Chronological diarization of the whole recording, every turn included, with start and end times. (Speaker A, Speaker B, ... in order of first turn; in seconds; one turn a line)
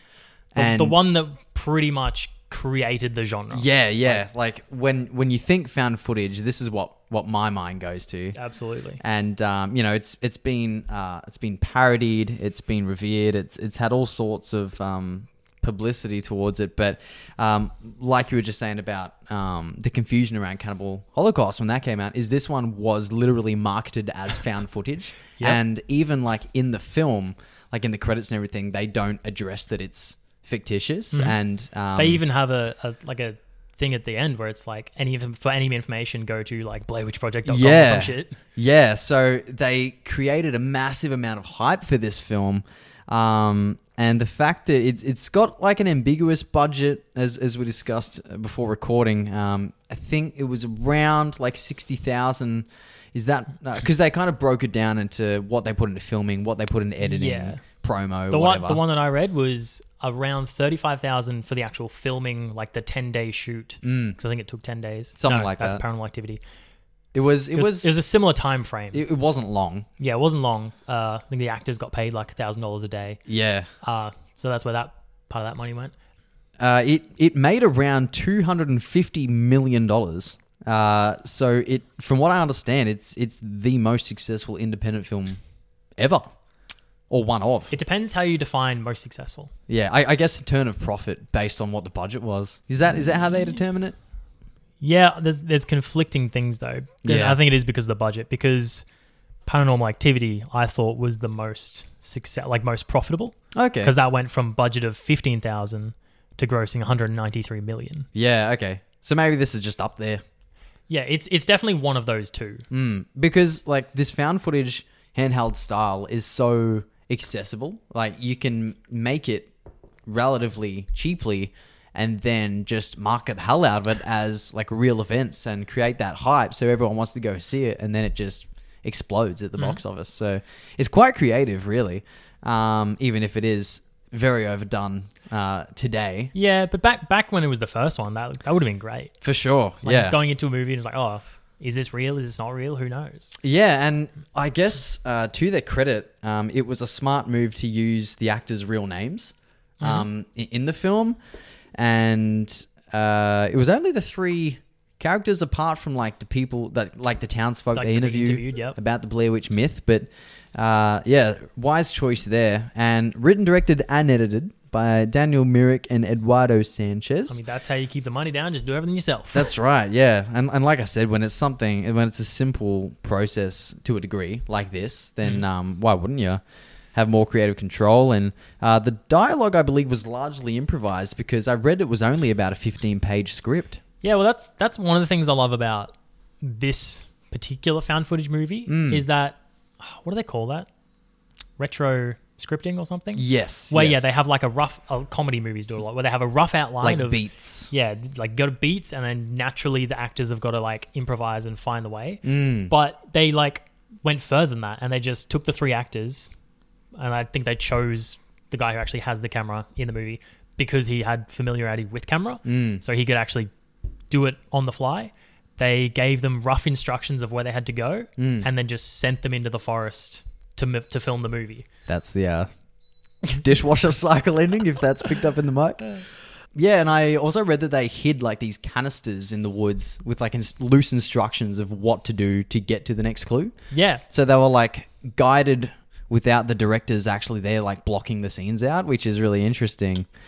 Speaker A: 0.5-1.0
Speaker B: 0.6-4.2
Speaker A: 3.5-8.4
Speaker B: 8.3-9.0
Speaker A: 9.0-32.2
Speaker B: 31.1-31.4
Speaker B: 32.0-38.4
Speaker A: 37.5-58.8
Speaker B: 57.0-57.6
Speaker B: 58.3-66.4
Speaker A: 63.8-64.2
Speaker A: 65.2-65.8
Speaker A: 67.1-68.0
Speaker B: 67.5-69.0
Speaker A: 68.9-69.9
Speaker B: 70.0-73.2
Speaker A: 73.3-73.7
Speaker B: 73.8-75.9
Speaker A: 76.6-85.4
Speaker A: 86.0-86.3
Speaker A: 87.1-87.7
Speaker B: 87.7-89.5
Speaker A: 89.7-94.0
Speaker B: 94.8-98.8
Speaker A: 97.0-97.4
Speaker B: 99.5-108.1
Speaker A: 103.6-103.9
Speaker A: 108.2-110.2
Speaker B: 110.9-112.6
Speaker A: 112.7-119.5
Speaker A: 120.1-136.3
Speaker B: 136.3-139.2
Speaker A: 139.2-140.2
Speaker B: 139.8-143.4
Speaker A: 143.4-151.2
Speaker B: 149.8-150.1
Speaker A: 151.8-167.4
Speaker B: 157.8-158.8
Speaker B: 167.3-169.5
Speaker A: 169.3-176.4
Speaker A: 176.9-183.8
Speaker B: 184.0-190.7
Speaker A: 188.7-189.0
Speaker B: 191.6-206.3
Speaker A: 193.2-194.2
Speaker A: 196.8-197.7
Speaker A: 202.2-202.7
Speaker B: 207.0-213.5
Speaker A: 212.5-212.8
Speaker B: 214.1-221.7
Speaker A: 218.2-218.5
Speaker A: 221.9-222.5
Speaker A: 223.3-225.9
Speaker A: 226.6-233.6
Speaker B: 233.7-234.0
Speaker A: 234.1-240.1